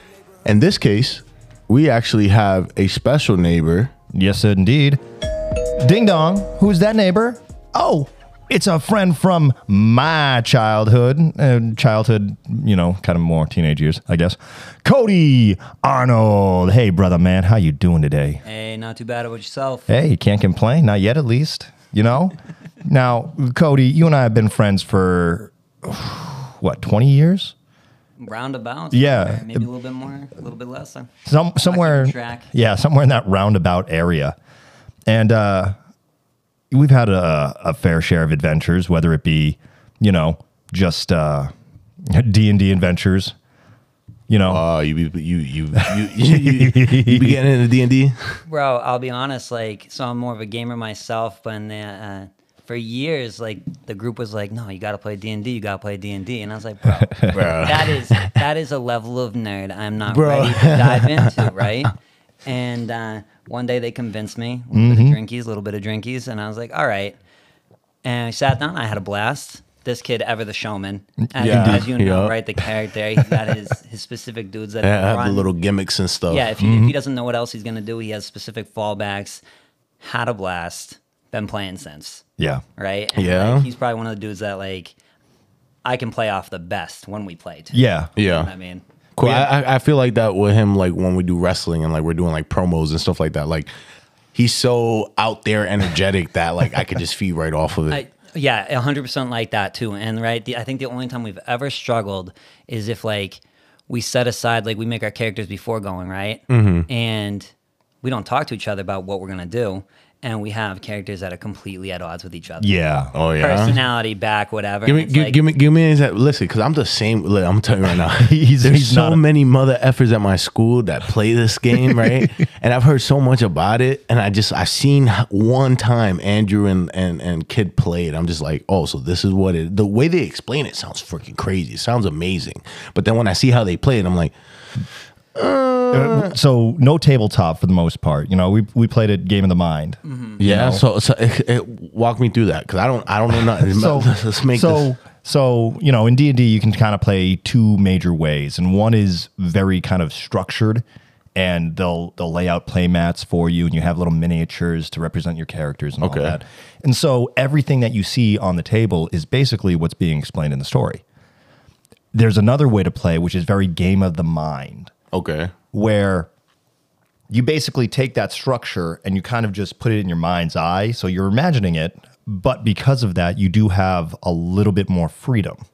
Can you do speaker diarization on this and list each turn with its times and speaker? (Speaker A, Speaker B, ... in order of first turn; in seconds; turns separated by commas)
Speaker A: 0.5-3.9, Speaker B: 4.1-5.0, Speaker B: 5.6-18.4, Speaker C: 18.4-19.9, Speaker B: 19.9-27.5, Speaker C: 28.2-32.5, Speaker B: 28.9-29.7, Speaker B: 31.3-34.4, Speaker B: 35.1-35.8, Speaker B: 36.7-41.5, Speaker B: 42.0-43.4, Speaker B: 44.3-44.6, Speaker A: 44.5-48.4, Speaker B: 45.8-47.4, Speaker C: 48.5-61.9, Speaker B: 56.9-57.6, Speaker A: 57.3-58.3, Speaker A: 60.1-61.5, Speaker C: 62.5-67.2, Speaker B: 64.7-65.2, Speaker C: 68.0-75.5, Speaker B: 71.4-71.9, Speaker A: 71.4-72.4, Speaker A: 74.8-76.5, Speaker C: 76.3-79.4, Speaker B: 76.6-77.0, Speaker C: 80.0-82.2, Speaker B: 82.4-82.6, Speaker C: 82.8-85.0, Speaker A: 83.2-83.7, Speaker C: 85.8-88.8, Speaker B: 87.7-88.1, Speaker A: 88.2-88.5, Speaker A: 89.2-93.7, Speaker B: 89.2-89.5, Speaker A: 94.3-98.0, Speaker C: 97.9-112.7, Speaker A: 106.5-106.9, Speaker B: 112.6-113.1, Speaker A: 113.1-113.8, Speaker C: 113.4-115.4, Speaker A: 114.9-134.3, Speaker B: 118.2-119.2, Speaker B: 121.8-122.3, Speaker A: 135.3-136.3, Speaker B: 135.9-140.8, Speaker C: 140.1-140.4, Speaker A: 140.4-144.9, Speaker B: 143.6-150.8, Speaker B: 151.4-161.0, Speaker A: 156.0-156.4, Speaker B: 162.1-164.9, Speaker A: 165.1-165.5, Speaker B: 165.7-166.3, Speaker B: 167.3-175.6